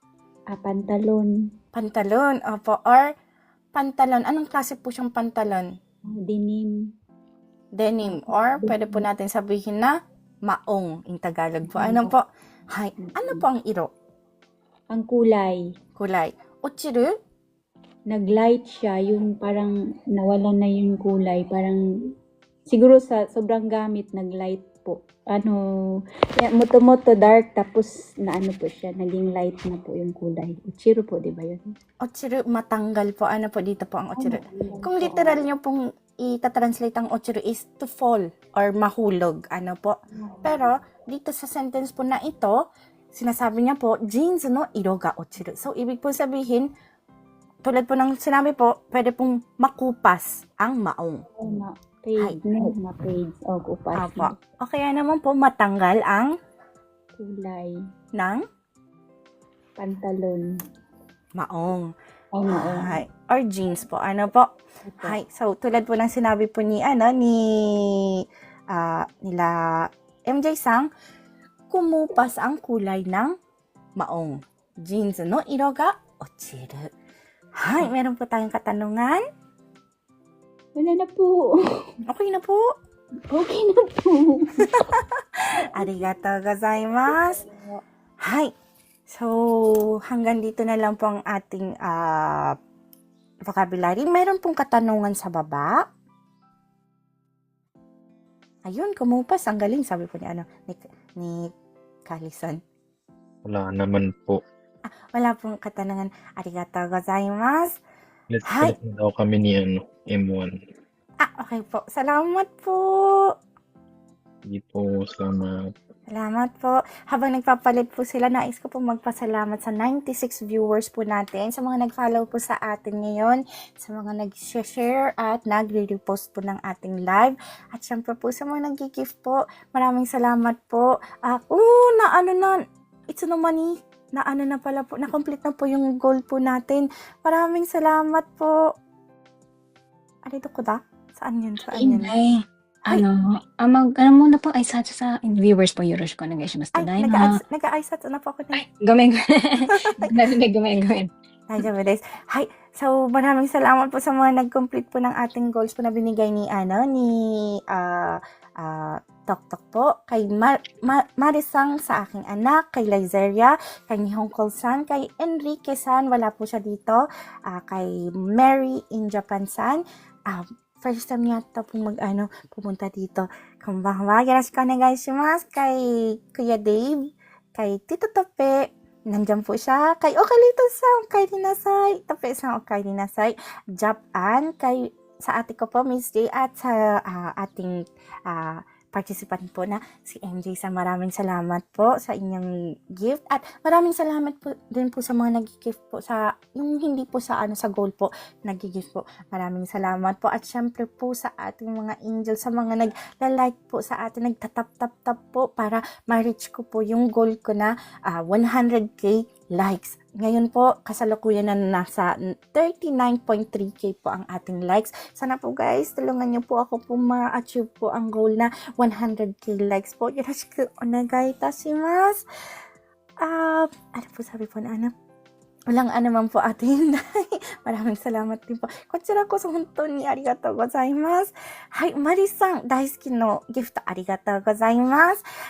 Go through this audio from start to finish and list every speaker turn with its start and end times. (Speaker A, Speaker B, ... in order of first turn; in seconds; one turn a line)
Speaker A: 0.5-1.4
Speaker B: 1.7-3.1
Speaker B: 3.7-5.7
Speaker A: 6.1-6.8
Speaker B: 7.8-9.9
Speaker A: 8.1-9.0
Speaker B: 10.4-13.9
Speaker A: 11.7-12.1
Speaker A: 13.0-13.4
Speaker A: 14.9-15.6
Speaker B: 16.0-17.1
Speaker A: 18.1-21.8
Speaker A: 22.7-25.6
Speaker A: 26.4-31.7
Speaker B: 32.0-42.5
Speaker A: 34.2-35.4
Speaker A: 40.1-40.6
Speaker B: 43.1-46.7
Speaker B: 47.6-51.2
Speaker A: 51.4-54.3
Speaker B: 53.9-56.3
Speaker A: 57.2-57.7
Speaker B: 58.1-58.4
Speaker A: 59.8-60.5
Speaker B: 61.4-61.9
Speaker A: 62.3-63.0
Speaker B: 62.5-64.5
Speaker A: 64.8-65.2
Speaker B: 65.0-70.9
Speaker B: 71.7-73.3
Speaker B: 74.0-76.9
Speaker B: 77.6-79.2
Speaker A: 80.8-81.5
Speaker B: 82.1-82.7
Speaker A: 83.3-84.8
Speaker B: 84.7-87.5
Speaker A: 87.5-87.8
Speaker B: 88.2-88.5
Speaker B: 89.1-92.5
Speaker B: 93.5-95.8
Speaker B: 98.7-101.5
Speaker B: 102.1-102.6
Speaker C: 103.5-104.4
Speaker B: 104.9-107.8
Speaker B: 108.5-108.8
Speaker C: 108.7-110.5
Speaker B: 111.2-113.3
Speaker C: 114.5-115.5
Speaker B: 116.1-132.6
Speaker B: 133.1-138.7
Speaker B: 140.3-142.2
Speaker D: 141.8-147.3
Speaker B: 146.7-148.7
Speaker D: 148.7-151.1
Speaker B: 149.7-150.1
Speaker B: 151.5-177.0
Speaker B: 177.6-222.2
Speaker B: 223.2-224.9
Speaker B: 225.7-235.2